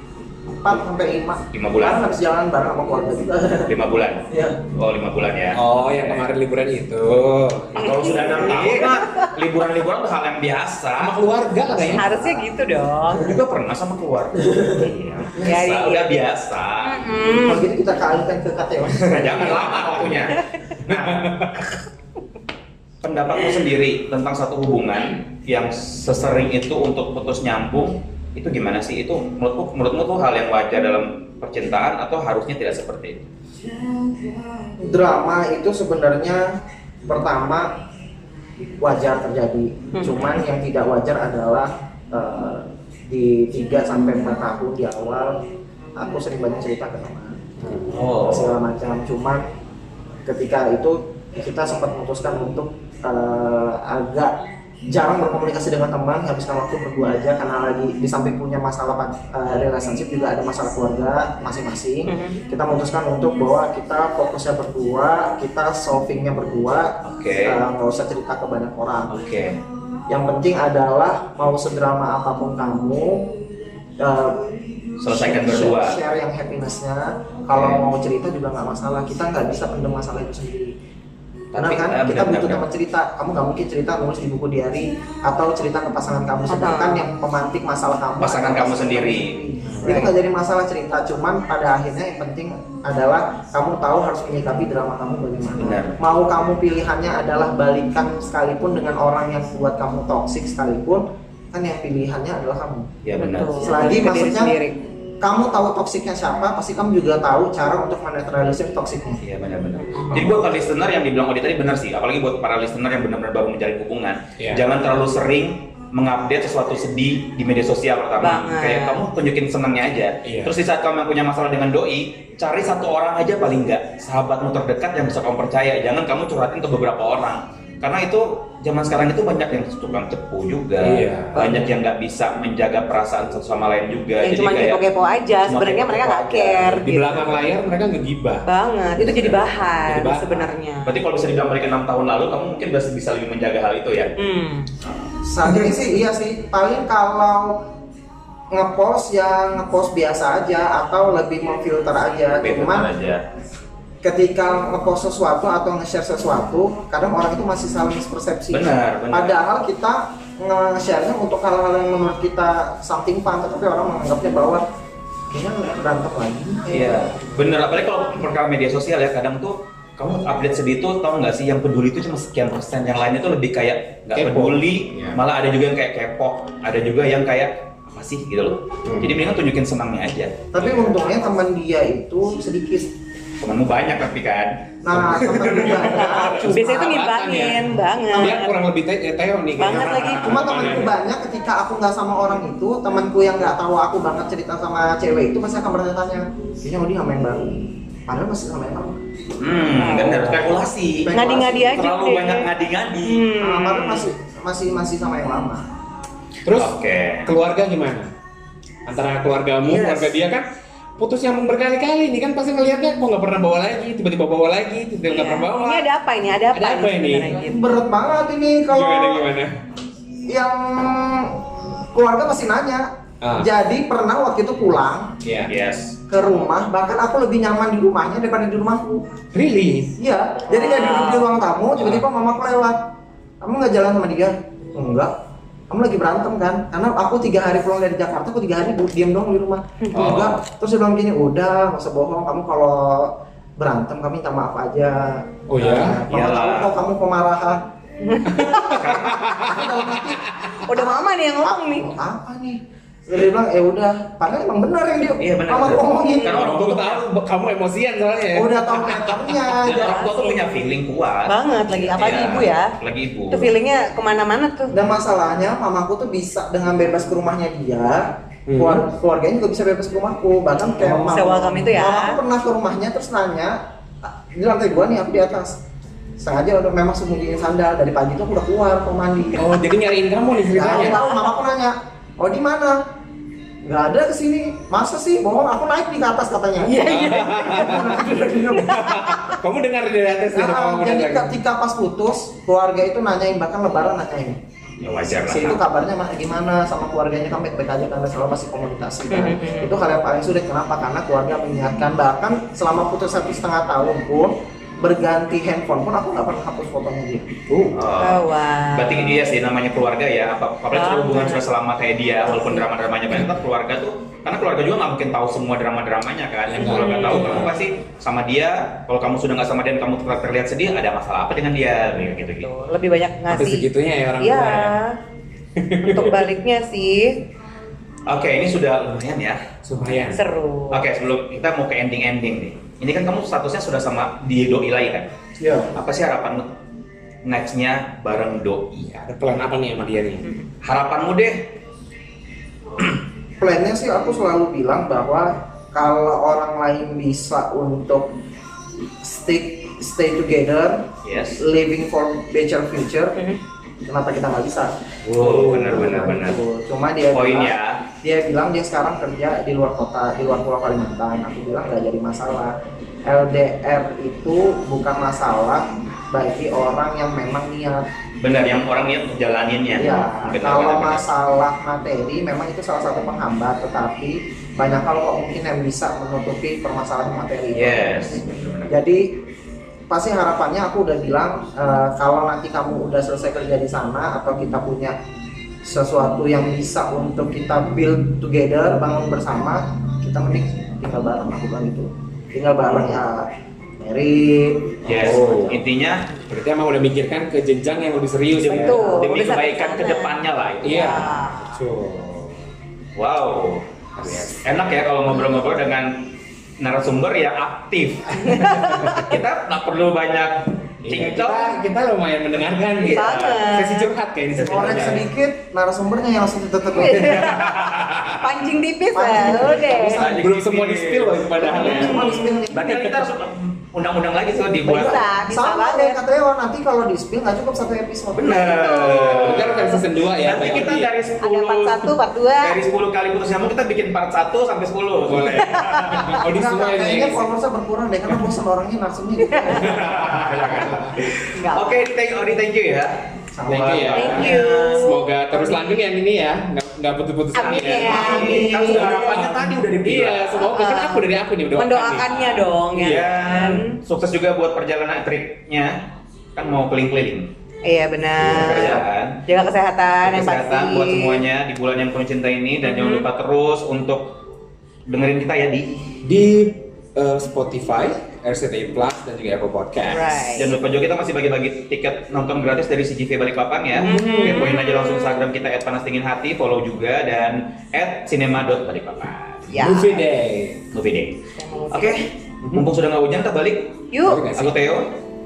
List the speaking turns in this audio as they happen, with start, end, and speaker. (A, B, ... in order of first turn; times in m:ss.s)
0:00.5-0:03.7 A
0:01.5-0:02.1 B
0:03.7-0:06.3 B
0:04.3-0:04.6 A
0:05.6-0:08.9 C
0:07.8-0:11.3 B
0:08.3-0:09.3 D
0:11.0-0:12.1 C
0:11.6-0:12.5 A
0:12.0-0:13.3 D
0:13.1-0:17.0 B
0:14.5-0:14.9 A
0:15.4-0:16.2 D
0:16.8-0:17.7 D
0:17.4-0:19.9 A
0:19.0-0:21.4 B
0:19.4-0:20.3 C
0:20.8-0:21.7 C
0:23.0-0:33.3 B
0:34.8-0:36.5 A
0:37.1-0:37.7 A
0:38.8-0:45.4 A
0:39.9-0:40.2 D
0:40.1-0:40.4 B
0:46.0-0:47.4 A
0:47.6-0:47.9 C
0:47.9-0:48.6 B
0:48.2-0:49.5 A
0:50.2-0:54.4 A
0:54.9-1:09.2 A
1:02.1-1:02.4 D
1:07.0-1:07.6 B
1:09.1-1:09.6 B
1:10.1-1:13.3 A
1:14.0-1:14.5 A
1:15.0-1:16.0 B
1:15.1-1:20.8 A
1:17.5-1:17.8 B
1:21.5-1:22.6 B
1:21.5-1:42.9 A
1:26.5-1:27.1 D
1:28.2-1:29.4 B
1:29.8-1:30.1 D
1:35.6-1:36.0 B
1:43.0-1:43.7 B
1:43.2-1:44.8 D
1:43.6-1:44.6 A
1:45.2-1:49.2 A
1:49.2-2:14.8 B
1:49.8-1:50.3 D
1:58.2-1:59.0 D
2:00.2-2:00.5 C
2:10.8-2:11.7 C
2:14.2-2:17.4 D
2:15.4-2:16.8 B
2:16.7-2:18.5 C
2:18.5-2:21.0 D
2:19.0-2:19.6 B
2:19.1-2:20.5 C
2:20.8-2:24.2 B
2:24.2-2:24.7 D
2:25.2-2:27.7 A
2:28.5-2:32.9 A
2:32.4-2:33.2 B
2:34.0-2:44.6 A
2:38.5-2:39.4 B
2:45.3-2:47.3 A
2:46.7-3:00.7 B
2:54.2-2:55.2 C
2:58.9-2:59.1 C
3:00.5-3:02.9 A
3:03.4-3:04.6 B
3:04.8-3:07.0 A
3:05.0-3:11.0 C
3:05.8-3:08.6 D
3:09.6-3:10.6 D
3:10.2-3:19.0 A
3:19.4-3:23.2 B
3:19.8-3:20.6 D
3:21.0-3:21.8 A
3:21.1-3:22.5 D
3:23.0-3:24.1 D
3:23.4-3:25.7 A
3:26.4-3:26.7 C
3:26.6-3:27.3 B
3:27.3-3:28.1 C
3:28.9-3:30.5 C
3:29.6-3:30.2 B
3:31.0-3:35.9 C
3:35.1-3:37.6 D
3:36.5-3:37.4 C
3:37.4-3:39.3 A
3:38.7-3:39.5 C
3:40.3-3:45.2 A
3:43.2-3:43.5 C
3:45.2-3:45.5 C
3:45.5-3:46.0 B
3:46.1-3:49.0 A
3:49.3-3:49.9 C
3:50.0-3:52.9 A
3:50.5-3:51.3 D
3:53.4-3:55.1 A
3:55.7-4:07.6 A
3:59.8-4:00.2 D
4:00.0-4:00.4 C
4:00.0-4:00.3 B
4:05.5-4:06.0 C
4:06.1-4:06.8 B
4:08.0-4:08.8 D
4:08.3-4:10.2 C
4:08.7-4:16.4 A
4:08.8-4:09.4 B
4:10.7-4:11.9 D
4:15.2-4:17.1 B
4:16.3-4:19.3 C
4:18.3-4:20.1 A
4:19.5-4:23.5 B
4:19.7-4:20.4 D
4:21.3-4:22.8 D
4:23.3-4:24.8 D
4:24.7-4:35.6 A
4:28.5-4:28.8 C
4:30.8-4:31.2 C
4:30.9-4:32.2 D
4:36.2-4:39.4 A
4:39.4-4:41.0 C
4:40.5-4:42.8 A
4:40.6-4:41.3 D
4:43.6-4:49.2 A
4:46.6-4:48.0 D
4:46.7-4:51.3 C
4:50.3-4:54.4 A
4:54.8-4:55.6 B
4:55.1-5:07.3 A
4:59.1-4:59.8 D
5:07.5-5:07.9 C
5:07.7-5:22.5 B
5:08.0-5:09.3 D
5:10.7-5:11.4 D
5:12.3-5:12.6 D
5:16.5-5:17.6 C
5:16.6-5:17.6 D
5:22.4-5:25.0 D
5:23.3-5:24.8 C
5:25.6-5:26.3 C
5:25.8-5:27.2 D
5:28.1-5:29.4 B
5:29.6-5:30.2 C
5:30.0-5:30.8 D
5:30.7-5:35.1 B
5:35.4-5:35.7 C
5:35.8-5:36.5 B
5:37.2-5:38.8 B
5:38.8-5:40.3 C
5:40.6-5:41.6 B
5:43.4-5:48.1 A
5:49.0-5:53.2 A
5:51.0-5:51.4 B
5:53.9-6:02.6 A
5:55.1-5:56.4 B
5:55.1-5:56.2 C
5:57.1-5:57.9 B
6:03.1-6:07.9 A
6:08.2-6:11.1 B
6:09.8-6:19.2 A
6:17.5-6:18.8 B
6:19.9-6:25.0 A
6:25.6-6:35.2 A
6:32.7-6:33.0 C
6:34.8-6:35.6 C
6:34.8-6:36.1 B
6:36.3-6:39.0 C
6:38.3-6:41.1 B
6:38.5-6:41.6 D
6:40.6-6:42.4 C
6:43.0-6:51.6 B
6:44.0-6:44.4 C
6:48.2-6:49.1 D
6:50.8-6:55.1 C
6:52.8-6:53.5 B
6:52.8-6:53.9 D
6:54.4-6:55.0 B
6:54.4-6:57.4 A
6:56.7-6:57.6 D
6:57.0-6:58.2 C
6:57.3-6:58.2 B
6:58.2-7:00.0 D
6:58.9-7:00.2 A
6:59.8-7:05.0 B
7:00.1-7:03.1 C
7:01.4-7:02.7 A
7:01.6-7:02.4 D
7:04.6-7:08.8 A
7:04.7-7:06.0 D
7:08.2-7:16.2 B
7:08.3-7:09.8 D
7:09.1-7:10.9 C
7:11.2-7:12.6 D
7:14.9-7:17.2 C
7:15.4-7:16.0 D
7:16.3-7:20.0 A
7:19.2-7:19.7 D
7:19.6-7:21.0 C
7:19.7-7:24.9 B
7:21.3-7:21.9 D
7:23.3-7:24.2 A
7:23.5-7:32.1 C
7:23.9-7:25.6 D
7:27.4-7:29.2 D
7:27.4-7:30.5 B
7:30.5-7:33.8 D
7:32.1-7:35.8 B
7:36.4-7:37.3 B
7:37.6-7:41.2 D
7:38.2-7:39.2 B
7:40.0-7:44.2 B
7:42.6-7:43.1 D
7:44.9-7:46.0 B
7:46.0-7:50.3 C
7:49.8-7:50.6 D
7:50.4-7:59.5 B
7:53.8-7:54.5 C
7:53.8-7:55.1 D
7:59.5-8:00.0 D
7:59.6-8:00.6 C
8:00.7-8:01.2 B
8:01.4-8:02.0 D
8:01.7-8:04.9 B
8:03.9-8:04.3 D
8:04.0-8:04.6 C